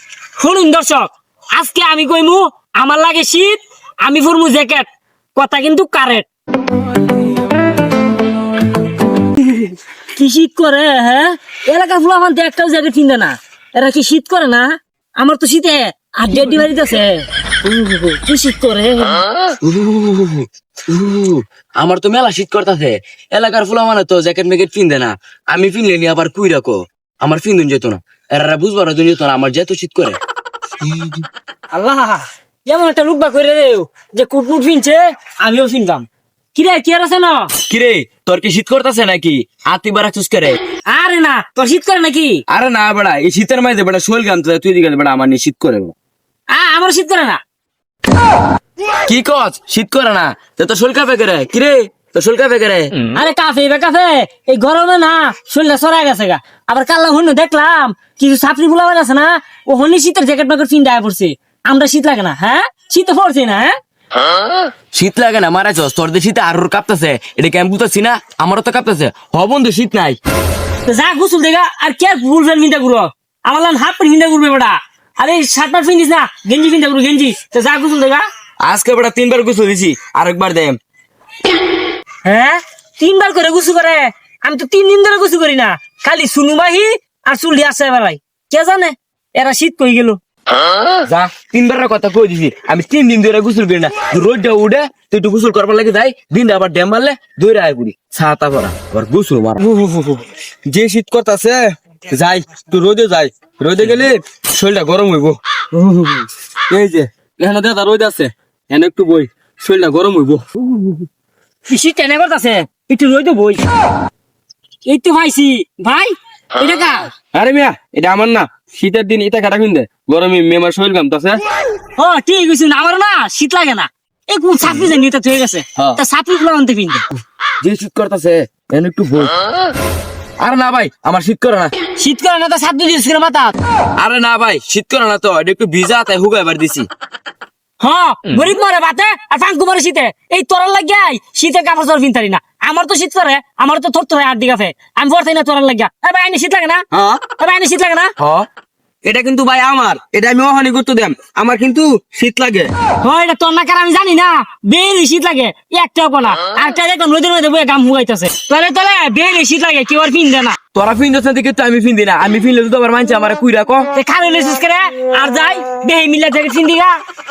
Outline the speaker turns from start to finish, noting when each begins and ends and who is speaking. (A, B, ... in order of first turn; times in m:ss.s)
0:00.4-0:06.3 A
0:09.6-0:19.2 A
0:19.6-0:30.2 B
0:31.7-0:37.5 A
0:37.6-0:40.6 B
0:40.9-0:42.4 A
0:42.5-0:45.9 B
0:46.5-0:47.4 A
0:49.1-0:53.0 B
0:53.1-1:03.7 A
1:04.9-1:10.2 B
1:10.9-1:18.2 A
1:18.6-1:20.8 B
1:22.2-1:30.2 A
1:31.1-1:39.8 B
1:39.8-1:41.6 C
1:40.9-1:41.5 B
1:42.1-1:45.4 B
1:43.5-1:44.1 C
1:46.7-1:48.2 B
1:46.7-1:50.4 C
1:49.6-1:50.3 B
1:51.7-1:53.6 A
1:54.8-1:57.1 A
1:57.3-2:01.4 C
2:02.0-2:07.0 A
2:07.6-2:09.3 B
2:10.4-2:11.7 B
2:12.0-2:13.5 A
2:14.0-2:16.9 B
2:17.8-2:26.8 A
2:27.4-2:28.1 A
2:28.2-2:28.4 B
2:29.0-2:32.7 C
2:29.1-2:29.8 B
2:31.3-2:32.6 B
2:33.0-2:40.6 A
2:40.7-2:43.9 B
2:43.9-2:46.9 A